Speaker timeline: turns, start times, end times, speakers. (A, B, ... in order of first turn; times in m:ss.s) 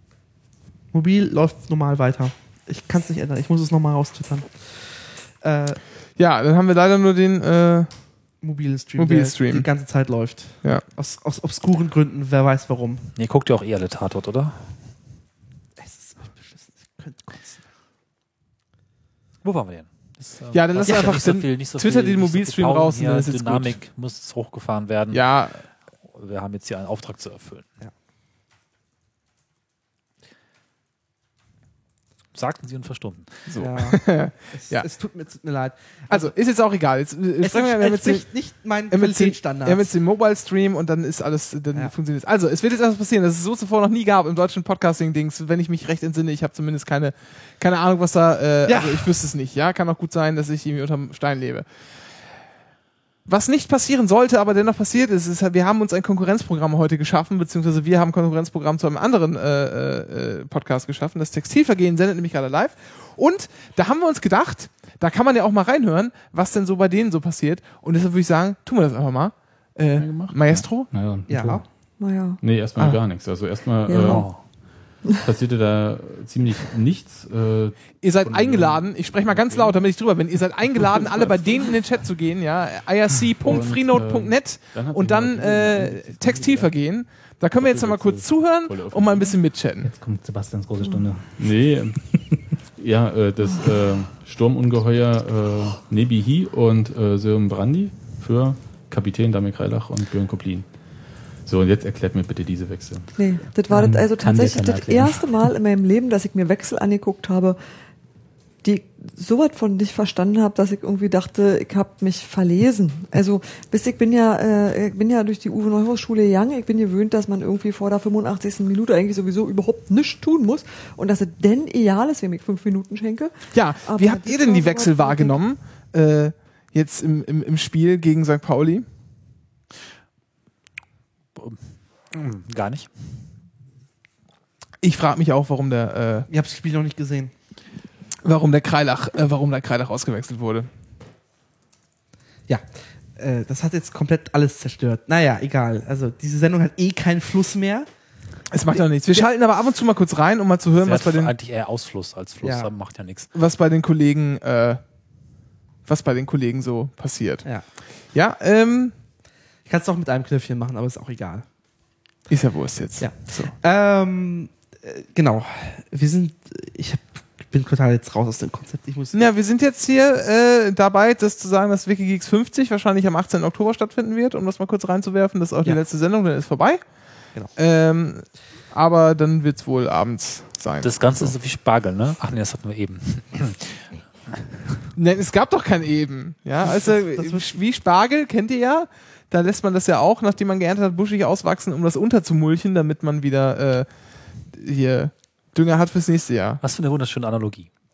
0:00.9-0:05.8 A
0:06.2-0:07.9 B
0:08.4-0:13.0 A
0:09.0-0:09.7 B
0:13.2-0:14.6 C
0:15.8-0:17.6 A
0:19.4-0:25.2 C
0:20.5-0:23.8 B
0:25.1-0:25.6 B
0:26.1-0:27.7 C
0:32.4-0:33.3 C
0:33.5-0:34.9 B
0:33.6-0:36.3 A
0:36.1-0:38.3 B
0:37.4-0:39.9 A
0:38.9-0:51.7 B
0:48.7-0:49.1 A
0:53.3-1:10.9 B
1:10.0-1:10.3 D
1:10.2-1:11.7 E
1:11.3-1:11.6 A
1:12.0-1:12.4 F
1:12.4-1:19.8 D
1:12.8-1:13.0 B
1:13.9-1:14.2 F
1:13.9-1:14.4 C
1:18.0-1:29.9 B
1:20.8-1:21.7 D
1:23.4-1:26.7 D
1:27.6-1:29.4 D
1:29.8-1:31.3 E
1:31.4-1:32.1 D
1:32.7-1:40.8 D
1:41.4-1:43.1 D
1:43.2-1:47.6 F
1:43.7-1:45.5 E
1:48.6-2:03.3 F
2:03.5-2:08.9 B
2:03.9-2:05.4 F
2:12.1-2:12.9 C
2:14.8-2:16.3 B
2:16.3-2:17.3 A
2:18.2-2:20.7 B
2:23.2-2:27.9 A
2:28.5-2:31.3 B
2:30.8-2:33.3 C
2:32.4-2:32.7 A
2:33.4-2:34.8 B
2:35.9-2:37.4 B
2:38.1-2:38.9 B
2:39.7-2:41.5 A
2:42.3-2:43.5 B
2:43.0-2:49.3 A
2:49.1-2:56.8 B
2:57.6-3:01.3 B
3:00.8-3:04.5 C
3:05.0-3:13.9 B
3:06.6-3:07.6 A
3:14.5-3:16.6 B
3:16.6-3:17.7 C